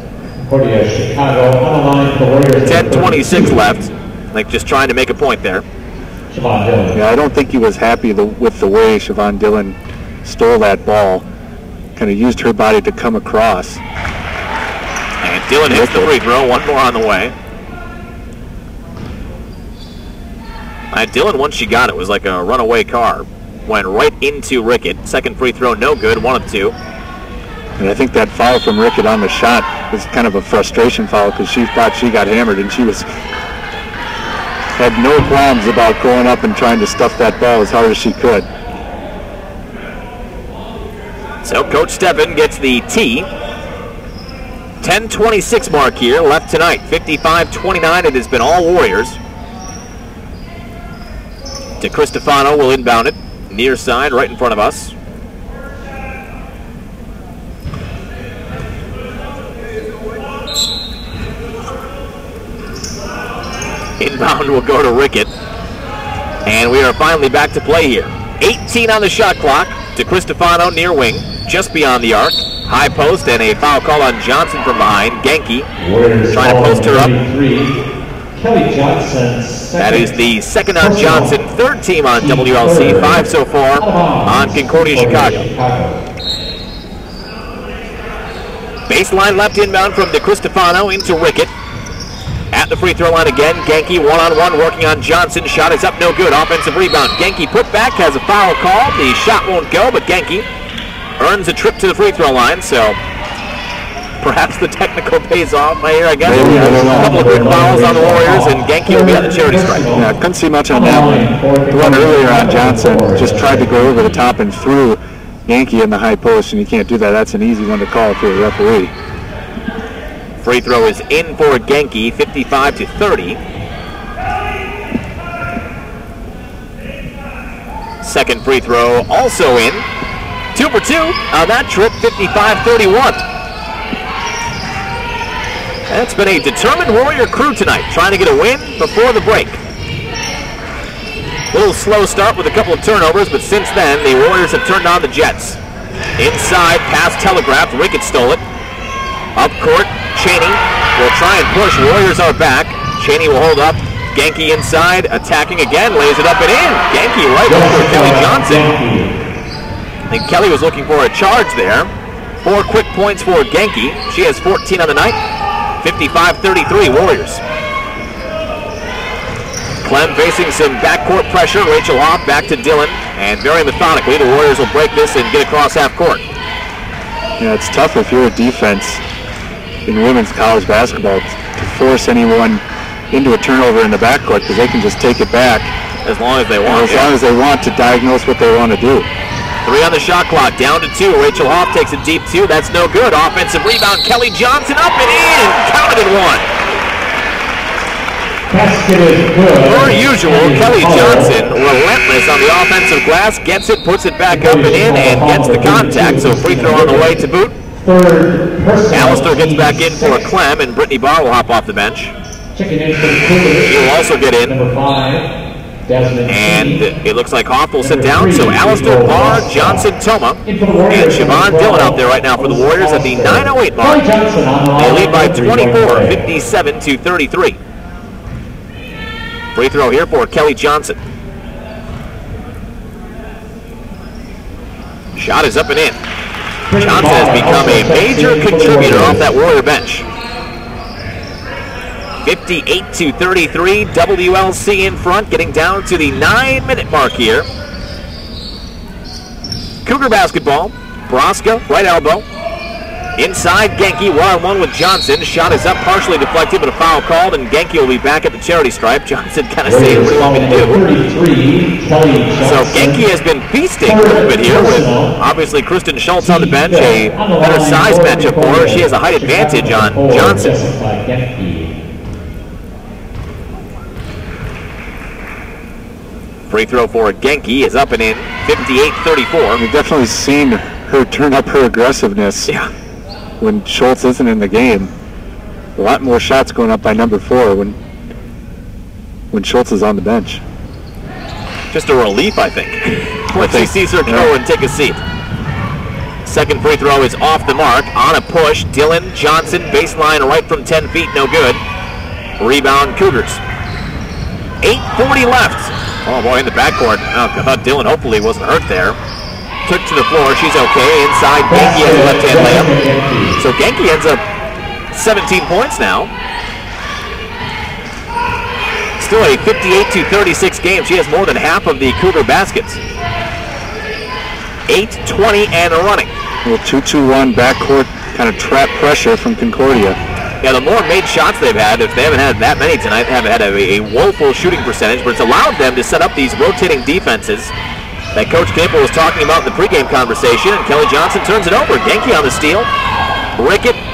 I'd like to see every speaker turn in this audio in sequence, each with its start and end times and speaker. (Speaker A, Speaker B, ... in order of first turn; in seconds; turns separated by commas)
Speaker A: 0.4-3.6, Speaker B: 2.6-5.6, Speaker A: 6.3-7.0, Speaker C: 6.9-11.2, Speaker C: 11.9-13.8, Speaker B: 15.2-17.3, Speaker C: 15.7-16.1, Speaker B: 20.9-26.7, Speaker C: 27.8-33.1, Speaker C: 34.8-38.5, Speaker B: 41.4-43.3, Speaker B: 44.8-49.2, Speaker B: 51.8-54.9, Speaker B: 64.0-65.3, Speaker B: 66.4-75.7, Speaker A: 75.8-77.8, Speaker B: 76.3-77.1, Speaker A: 78.3-80.2, Speaker B: 79.8-85.5, Speaker A: 80.8-81.3, Speaker A: 82.2-86.0, Speaker B: 88.9-91.5, Speaker B: 92.5-100.5, Speaker B: 101.2-103.0, Speaker B: 104.2-109.9, Speaker C: 106.2-107.3, Speaker A: 106.3-110.1, Speaker C: 109.9-118.9, Speaker A: 110.7-114.2, Speaker B: 120.4-123.4, Speaker B: 128.0-129.8, Speaker B: 130.5-133.2, Speaker B: 135.9-139.6, Speaker B: 141.5-145.6, Speaker B: 146.2-148.4, Speaker B: 149.3-158.7, Speaker A: 157.5-159.1, Speaker B: 160.1-161.9, Speaker B: 162.4-165.2, Speaker B: 165.8-167.4, Speaker B: 169.8-176.2, Speaker C: 177.4-179.0, Speaker C: 179.8-185.7, Speaker B: 186.0-187.1, Speaker C: 186.6-189.1, Speaker B: 189.6-196.5, Speaker A: 198.5-201.3, Speaker B: 199.6-207.5, Speaker A: 204.3-207.2, Speaker A: 207.8-210.3, Speaker B: 208.9-212.1, Speaker A: 212.5-213.8, Speaker B: 213.6-214.5, Speaker A: 214.4-215.3, Speaker A: 215.9-216.9, Speaker B: 216.3-224.0, Speaker A: 217.8-219.8, Speaker A: 220.4-226.2, Speaker B: 224.8-227.6, Speaker B: 229.5-231.0, Speaker B: 235.2-236.0, Speaker A: 236.7-239.3, Speaker B: 236.8-240.0, Speaker B: 242.2-247.5, Speaker B: 249.8-252.2, Speaker B: 253.2-260.8, Speaker A: 259.6-263.0, Speaker B: 262.4-270.6, Speaker A: 263.8-265.1, Speaker A: 266.2-271.7, Speaker B: 276.5-279.6, Speaker C: 279.6-282.5, Speaker C: 283.4-284.9, Speaker C: 285.8-287.8, Speaker C: 289.3-290.4, Speaker B: 291.7-295.0, Speaker C: 293.3-294.3, Speaker B: 296.2-301.6, Speaker B: 302.4-303.4, Speaker B: 304.6-309.0, Speaker B: 309.6-312.7, Speaker A: 311.5-313.4, Speaker B: 313.4-314.2, Speaker B: 314.9-316.1, Speaker B: 319.0-322.8, Speaker B: 324.7-326.1, Speaker C: 326.4-330.0, Speaker B: 330.4-337.5, Speaker B: 338.1-342.7, Speaker B: 343.4-343.8